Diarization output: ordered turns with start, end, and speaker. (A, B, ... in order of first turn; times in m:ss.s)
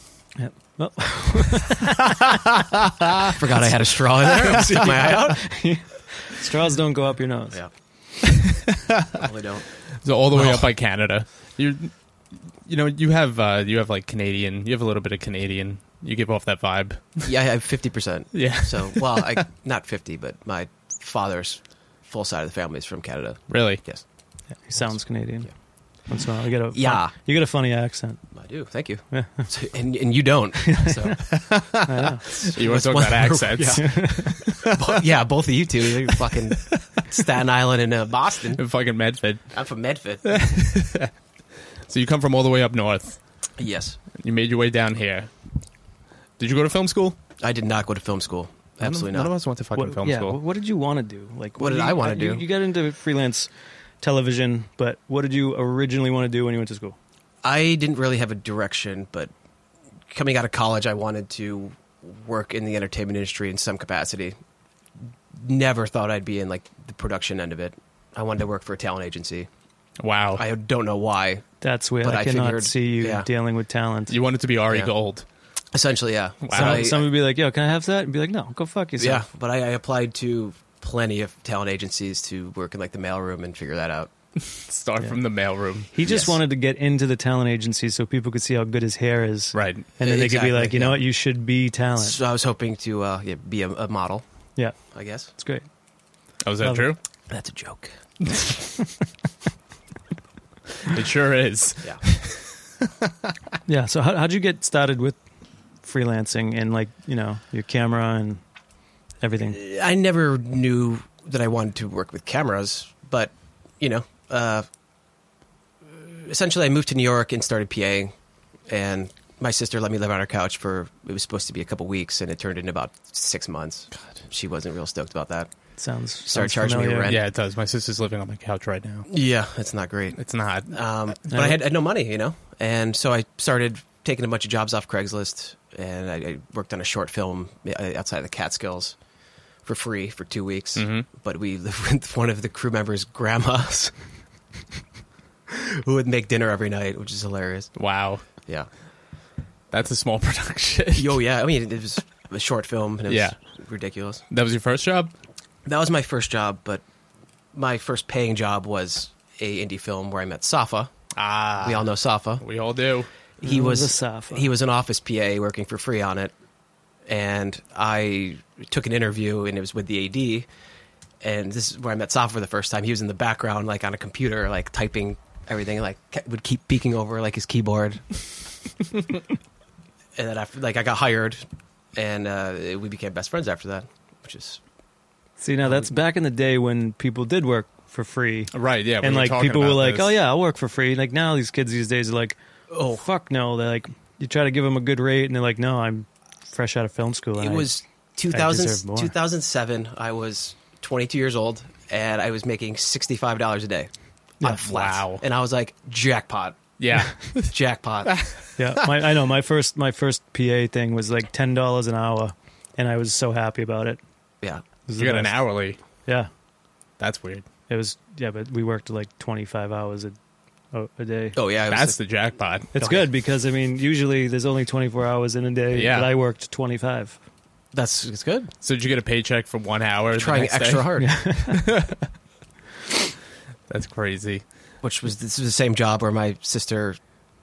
0:00.4-0:02.3 A
0:03.3-0:05.4 B
0:04.3-0:07.6 A
0:09.2-0:09.7 B
0:10.0-0:11.9 C
0:10.3-0:10.7 B
0:12.5-0:17.3 C
0:17.2-0:24.0 B
0:18.3-0:19.4 C
0:23.5-0:23.8 C
0:24.5-0:28.2 A
0:24.8-0:25.5 B
0:26.7-0:27.1 B
0:28.3-0:31.3 B
0:29.1-0:29.5 A
0:30.7-0:31.2 A
0:31.3-0:34.8 C
0:31.8-0:32.4 A
0:32.4-0:38.6 B
0:33.7-0:34.4 A
0:36.7-0:37.2 C
0:38.5-0:39.6 C
0:39.5-0:40.3 B
0:40.2-0:41.1 C
0:41.8-0:43.2 C
0:43.6-0:44.0 B
0:44.2-0:45.3 C
0:46.4-0:47.2 C
0:47.4-0:49.3 B
0:48.8-0:50.4 C
0:49.7-0:53.5 A
0:51.6-0:52.4 B
0:54.0-0:57.0 A
0:57.4-0:59.3 B
1:00.1-1:04.4 B
1:05.3-1:09.5 B
1:10.0-1:10.4 C
1:10.3-1:11.4 B
1:11.6-1:14.2 A
1:12.0-1:13.3 B
1:14.1-1:15.2 C
1:15.7-1:17.1 B
1:16.4-1:16.9 C
1:16.5-1:19.2 A
1:19.0-1:24.1 B
1:24.5-1:25.9 C
1:25.9-1:32.2 A
1:26.0-1:26.4 B
1:29.5-1:29.9 C
1:30.0-1:31.0 B
1:32.0-1:34.2 B
1:34.8-1:35.3 B
1:35.3-1:35.7 A
1:36.4-1:37.0 C
1:36.6-1:36.9 A
1:37.3-1:37.9 B
1:40.8-1:43.3 C
1:43.6-1:45.2 A
1:45.8-1:48.4 A
1:49.2-1:49.6 A
1:49.5-1:54.6 B
1:55.8-1:58.1 B
1:58.7-2:05.5 B
2:05.8-2:07.2 A
2:06.2-2:07.2 B
2:07.0-2:09.1 C
2:09.1-2:19.0 B
2:10.2-2:10.8 C
2:11.3-2:11.6 A
2:19.6-2:23.9 B
2:20.8-2:21.1 C
2:25.5-2:27.7 B
2:27.8-2:28.2 C
2:29.7-2:31.1 C
2:30.9-2:34.2 B
2:33.1-2:33.4 C
2:34.3-2:35.1 C
2:35.6-2:36.8 B
2:37.5-2:40.9 B
2:41.1-2:41.9 C
2:41.6-2:42.4 B
2:42.4-2:43.1 C
2:43.4-2:46.3 B
2:43.4-2:44.4 A
2:47.1-2:50.5 B
2:51.2-2:58.1 B
3:00.2-3:01.4 B
3:01.9-3:04.6 B
3:05.4-3:17.7 A
3:08.5-3:10.1 C
3:12.7-3:13.0 B
3:17.4-3:23.9 B
3:18.3-3:19.1 A
3:24.4-3:26.7 B
3:24.6-3:25.2 C
3:26.8-3:28.8 C
3:27.5-3:28.1 B
3:28.6-3:34.0 A
3:34.9-3:35.4 A
3:35.0-3:35.8 C
3:37.0-3:37.4 C
3:37.7-3:40.2 A
3:40.7-3:41.4 A
3:41.3-3:42.0 B
3:41.7-3:42.7 C
3:42.7-3:47.2 A
3:42.8-3:43.1 B
3:45.7-3:46.1 C
3:47.7-3:48.5 B
3:48.6-3:52.0 C
3:50.2-3:51.2 B
3:51.0-3:51.6 A
3:53.7-3:54.4 C
3:54.8-3:57.0 B